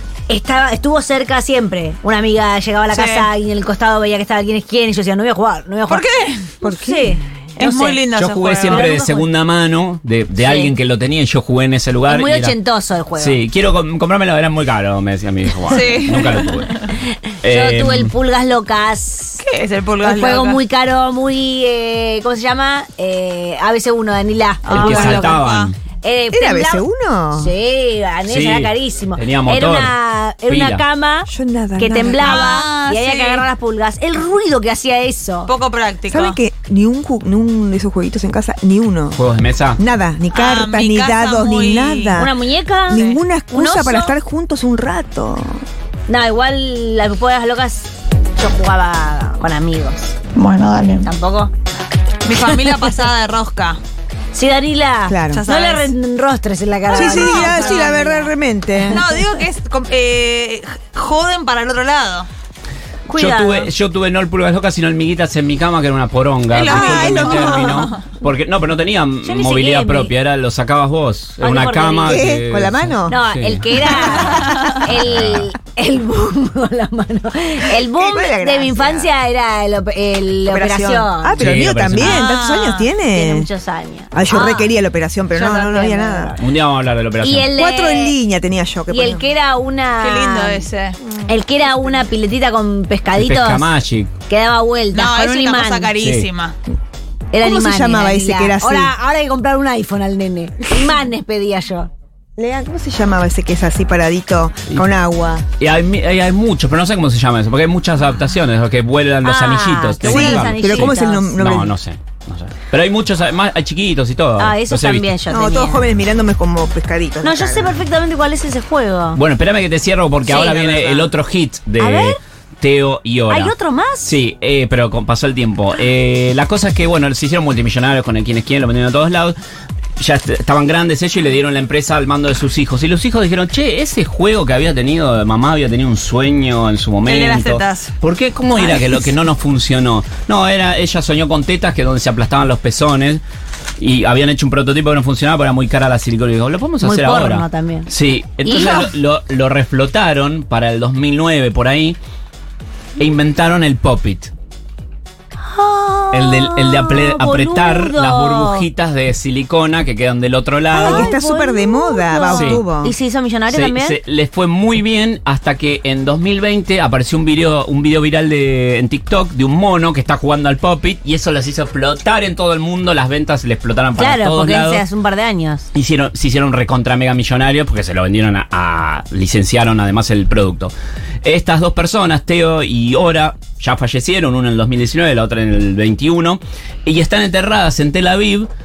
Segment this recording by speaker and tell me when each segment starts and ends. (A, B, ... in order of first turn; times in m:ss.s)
0:00.3-0:06.1 A
0:02.9-0:03.3 B
0:05.9-0:06.6 B
0:06.6-0:07.1 C
0:06.6-0:08.0 A
0:07.6-0:09.0 B
0:08.1-0:12.6 D
0:08.7-0:09.3 A
0:10.4-0:10.7 A
0:12.1-0:13.4 A
0:13.2-0:16.8 D
0:15.7-0:16.8 B
0:17.4-0:18.1 D
0:17.4-0:19.4 A
0:19.4-0:20.6 B
0:20.0-0:25.4 A
0:24.6-0:25.7 B
0:24.7-0:25.8 D
0:26.0-0:35.5 A
0:26.3-0:27.5 C
0:28.3-0:30.8 D
0:31.3-0:32.3 C
0:32.1-0:33.5 B
0:35.5-0:36.4 B
0:36.1-0:39.2 C
0:39.2-0:39.8 D
0:39.8-0:42.3 C
0:40.3-0:42.2 B
0:42.1-0:44.1 A
0:42.9-0:45.6 C
0:42.9-0:43.2 B
0:46.1-0:50.2 A
0:50.4-0:51.1 B
0:51.0-0:51.5 A
0:52.2-0:53.8 B
0:54.3-0:58.3 A
0:55.1-0:55.4 C
0:55.3-0:55.9 B
0:56.9-0:58.0 B
0:57.0-0:59.0 C
0:58.9-1:02.3 B
1:03.1-1:03.7 A
1:03.2-1:14.5 D
1:06.5-1:08.1 B
1:06.7-1:07.7 C
1:09.2-1:10.1 A
1:11.4-1:12.4 A
1:12.1-1:13.2 C
1:13.1-1:21.4 A
1:14.5-1:14.8 B
1:15.0-1:15.4 D
1:17.7-1:19.1 C
1:20.5-1:23.5 C
1:21.4-1:22.2 D
1:22.0-1:22.9 B
1:23.1-1:24.7 A
1:24.1-1:26.4 C
1:25.3-1:26.4 A
1:26.4-1:27.5 D
1:27.2-1:28.2 A
1:27.5-1:29.3 C
1:28.9-1:30.7 A
1:30.0-1:31.0 B
1:31.3-1:33.7 A
1:33.2-1:34.1 D
1:34.3-1:35.9 A
1:34.9-1:36.6 B
1:36.0-1:36.3 D
1:37.3-1:41.9 A
1:37.4-1:38.9 C
1:42.4-1:45.4 C
1:45.6-1:55.1 D
1:49.2-1:51.4 A
1:50.0-1:51.7 C
1:54.4-1:55.9 A
1:55.3-1:57.8 C
1:57.2-1:59.2 A
1:59.2-2:09.4 D
2:00.2-2:01.1 A
2:01.8-2:02.2 A
2:03.3-2:04.2 A
2:10.0-2:23.2 D
2:17.1-2:18.0 B
2:23.8-2:32.0 D
2:26.8-2:27.9 A
2:33.0-2:34.3 D
2:35.5-2:38.7 A
2:36.1-2:41.1 D
2:40.7-2:44.0 A
2:40.8-2:42.9 C
2:42.3-2:42.6 D
2:43.5-2:54.9 D
2:54.0-2:55.7 A
2:55.7-3:08.5 D